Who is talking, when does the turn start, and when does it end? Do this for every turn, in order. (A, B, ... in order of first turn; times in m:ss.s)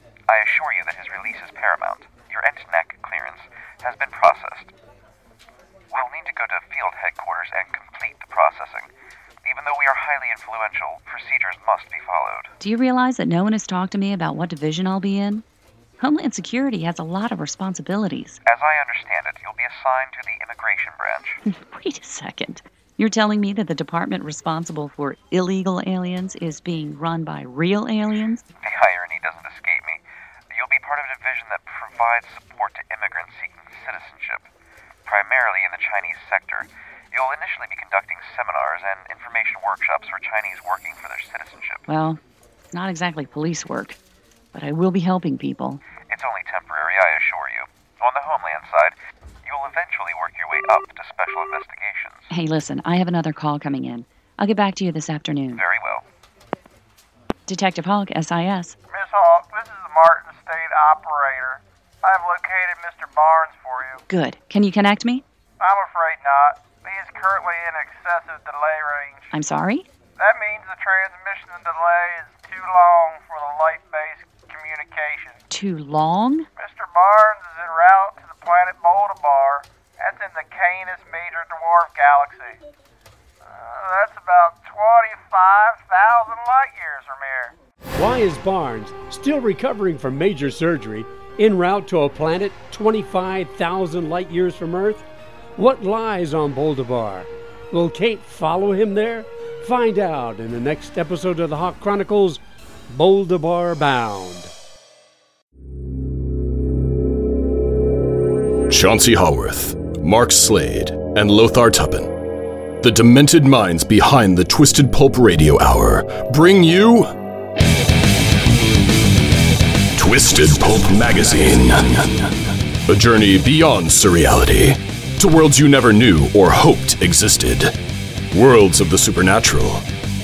0:00.3-0:04.7 A
0:05.9-0:08.9 A
0:09.4-0:12.5 A
0:12.6-0:15.4 B
0:16.0-0:18.4 B
0:18.5-0:21.4 A
0:21.5-0:28.4 B
0:28.6-0:34.5 A
0:35.1-0:41.8 A
0:41.9-0:42.2 B
0:42.7-0:44.0 B
0:44.5-0:45.8 B
0:46.1-0:52.3 A
0:52.3-0:55.6 B
0:55.5-0:56.0 A
0:57.5-0:58.8 B
0:58.9-1:04.0 C
1:04.1-1:05.2 B
1:05.6-1:09.3 C
1:09.3-1:09.9 B
1:10.2-1:15.4 C
1:15.5-1:16.5 B
1:16.6-1:22.6 C
1:23.4-1:27.6 C
1:28.0-1:35.0 D
1:35.6-1:44.5 D
1:48.7-1:52.1 E
1:52.8-1:57.2 E
2:00.0-2:07.8 E
2:08.3-2:09.8 E